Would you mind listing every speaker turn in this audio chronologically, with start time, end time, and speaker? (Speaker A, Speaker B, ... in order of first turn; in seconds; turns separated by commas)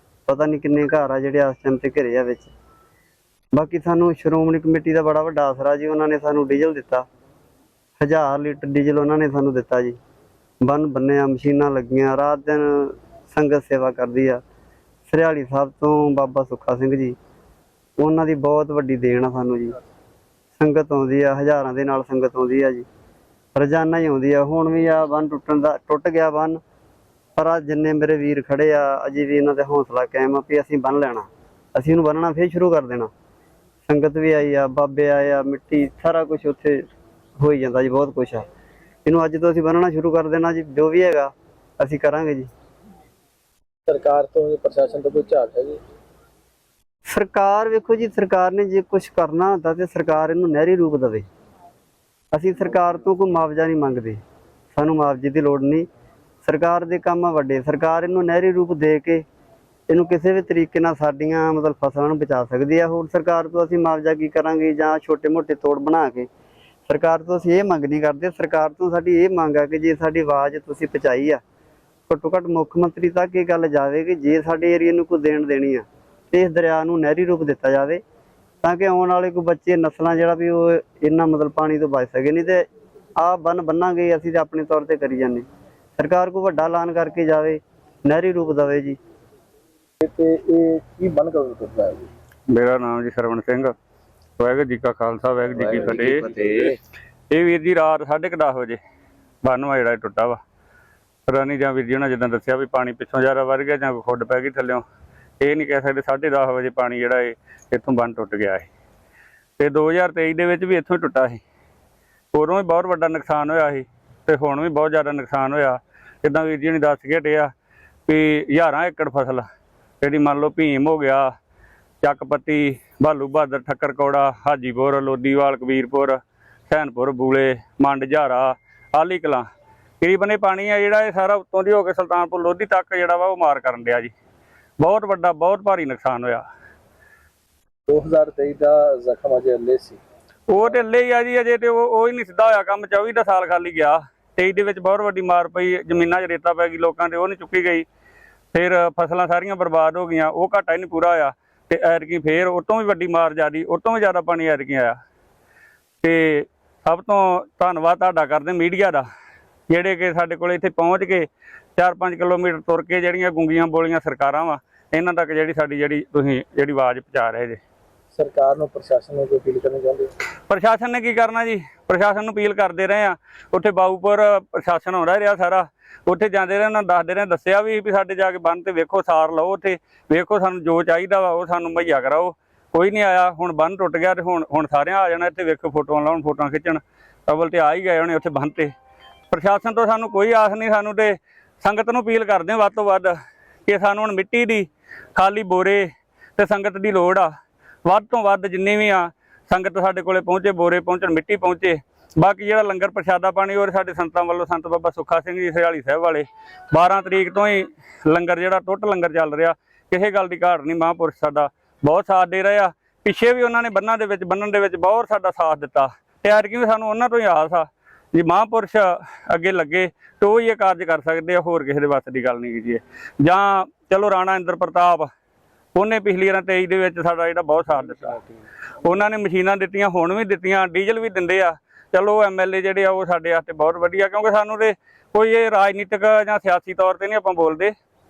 Speaker A: 0.3-2.5, Speaker A: 3.5-7.1, Speaker A: 8.0-10.0, Speaker A: 10.6-14.4, Speaker A: 15.1-17.2, Speaker A: 18.0-19.8, Speaker A: 20.6-22.9, Speaker A: 23.6-26.6, Speaker A: 27.4-33.1, Speaker A: 33.9-36.9, Speaker A: 37.4-38.5, Speaker A: 39.0-42.5, Speaker B: 43.9-45.8, Speaker A: 47.1-51.2, Speaker A: 52.3-54.2, Speaker A: 54.8-55.9, Speaker A: 56.4-59.2, Speaker A: 59.9-66.3, Speaker A: 66.9-71.4, Speaker A: 72.1-78.0, Speaker A: 78.6-82.7, Speaker A: 83.2-85.5, Speaker A: 86.0-89.0, Speaker B: 90.0-92.1, Speaker C: 92.5-93.7, Speaker C: 94.4-96.4, Speaker C: 97.3-98.8, Speaker C: 99.4-100.4, Speaker C: 101.3-104.8, Speaker C: 105.4-108.7, Speaker C: 109.6-111.4, Speaker C: 112.3-117.5, Speaker C: 118.1-119.5, Speaker C: 120.0-121.3, Speaker C: 122.0-129.4, Speaker C: 130.0-134.1, Speaker C: 134.8-136.4, Speaker B: 137.9-140.0, Speaker C: 140.5-147.8, Speaker C: 148.5-155.0, Speaker C: 156.0-159.1, Speaker C: 159.7-167.6, Speaker B: 168.1-170.1, Speaker C: 170.5-188.7, Speaker C: 189.3-193.2, Speaker C: 193.7-197.3, Speaker C: 197.8-225.1, Speaker C: 225.8-228.2, Speaker C: 228.8-237.7